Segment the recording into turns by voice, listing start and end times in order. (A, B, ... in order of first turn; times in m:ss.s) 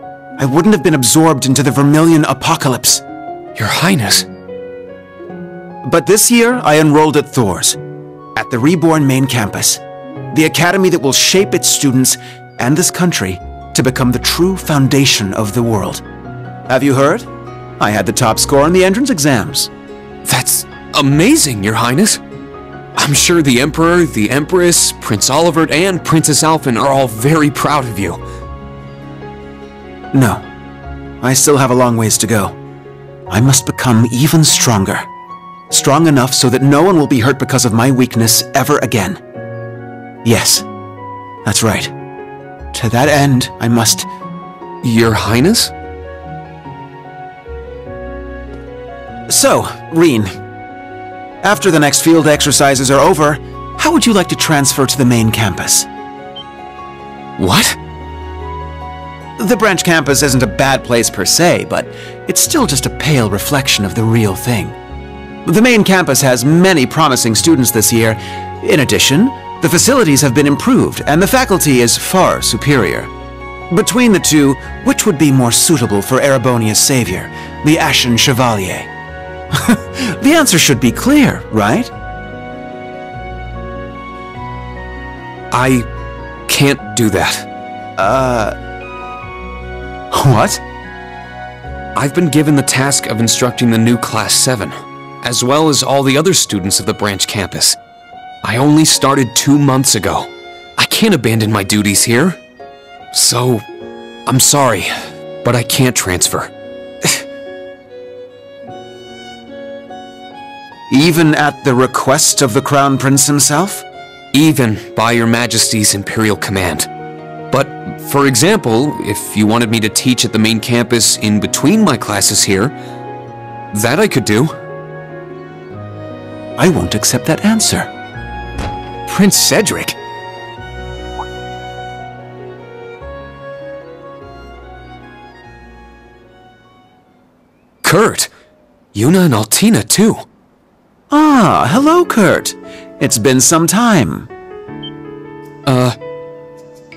0:00.4-0:03.0 A
0:03.6-0:04.2 B
0:05.8-0:07.8 A
0:08.4-0:16.0 A
0:16.7-0:17.3 A
0:17.8-0:19.7 A
0:20.2-0:22.2 B
0:23.0-0:28.2 B
0:30.1-0:30.4 A
0:31.2-0:32.6 A
0:33.3-0:35.1 A
0:35.7-0:39.2 A
0:40.2-0:40.6 A
0:41.4-0:41.9 A
0:42.7-0:44.1 A
0:44.8-0:45.7 B
0:49.3-0:50.3 A
0:51.4-0:55.9 A
0:57.4-0:57.8 B
0:59.4-1:04.7 A
1:05.4-1:13.1 A
1:13.7-1:18.9 A
1:19.5-1:21.9 A
1:25.5-1:25.9 B
1:26.5-1:27.5 B
1:28.0-1:28.5 A
1:30.1-1:30.6 A
1:31.9-1:37.8 B
1:38.4-1:42.4 B
1:43.1-1:43.6 B
1:44.2-1:46.5 B
1:50.9-1:53.8 A
1:54.3-1:56.9 B
1:57.5-2:02.7 B
2:03.7-2:04.5 B
2:06.6-2:07.9 A
2:09.1-2:10.0 B
2:17.8-2:18.3 B
2:18.9-2:20.2 B
2:21.1-2:24.3 A
2:25.6-2:26.0 B